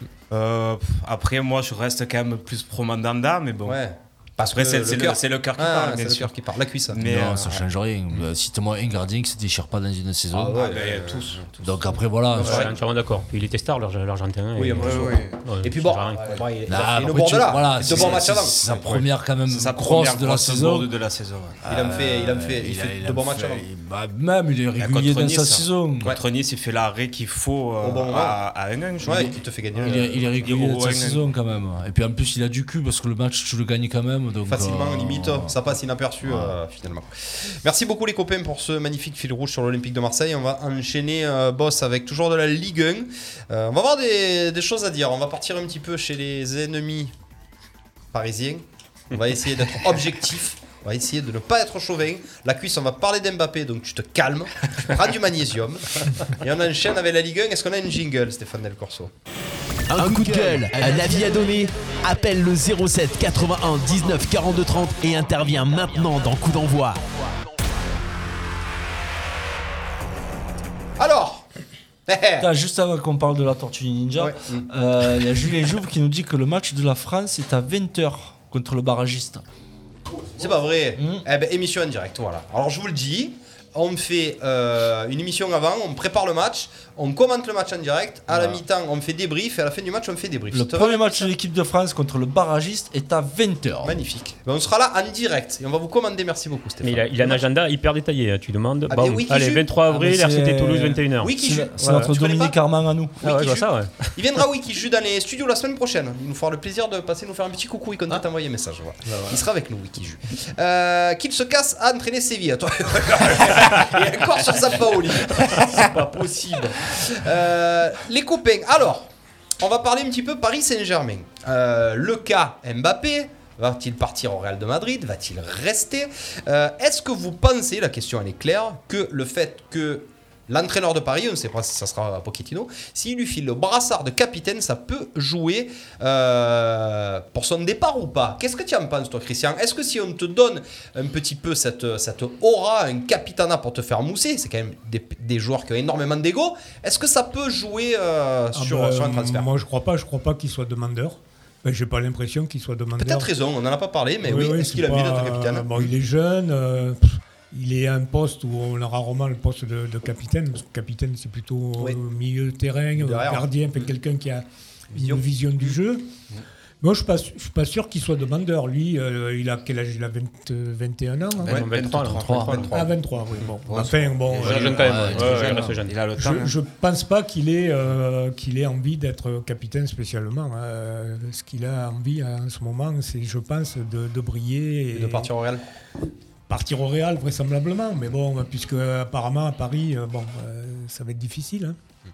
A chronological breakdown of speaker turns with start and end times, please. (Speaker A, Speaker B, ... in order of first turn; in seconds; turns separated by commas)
Speaker A: 0.3-3.8, Speaker B: 3.6-7.0, Speaker A: 4.5-6.3, Speaker A: 6.9-7.7, Speaker C: 6.9-10.6, Speaker B: 10.3-11.4, Speaker A: 10.5-12.6, Speaker C: 11.6-12.7, Speaker B: 12.3-12.7, Speaker D: 12.4-16.4, Speaker B: 14.6-18.6, Speaker A: 14.8-15.4, Speaker C: 16.7-20.9, Speaker A: 17.8-21.6, Speaker C: 21.6-26.1, Speaker B: 21.7-23.6, Speaker A: 24.8-31.2, Speaker B: 27.8-28.4, Speaker B: 29.0-30.2, Speaker C: 29.0-35.5, Speaker B: 34.5-47.1, Speaker C: 36.2-36.5, Speaker B: 48.1-59.1, Speaker E: 59.9-67.0, Speaker B: 60.2-60.6, Speaker B: 71.0-71.5, Speaker B: 72.1-72.5, Speaker C: 72.4-79.4, Speaker B: 74.2-74.7, Speaker B: 80.4-91.3, Speaker C: 81.0-81.2, Speaker A: 88.3-88.6, Speaker C: 90.5-94.0, Speaker B: 93.8-97.4, Speaker D: 96.8-102.1, Speaker B: 98.9-99.6, Speaker C: 99.9-103.2, Speaker B: 101.2-102.5, Speaker D: 103.2-104.1, Speaker B: 103.2-119.1, Speaker D: 115.9-116.2, Speaker B: 119.6-149.5, Speaker F: 148.5-153.3, Speaker B: 153.0-155.7, Speaker F: 154.2-166.1, Speaker B: 162.9-163.5, Speaker B: 164.9-165.7, Speaker F: 166.8-171.6, Speaker A: 171.4-176.5, Speaker D: 171.5-172.8, Speaker C: 172.1-172.7, Speaker F: 172.7-174.7, Speaker D: 174.3-176.0, Speaker C: 174.7-175.8, Speaker F: 176.2-185.3, Speaker B: 184.9-185.6, Speaker F: 186.5-191.8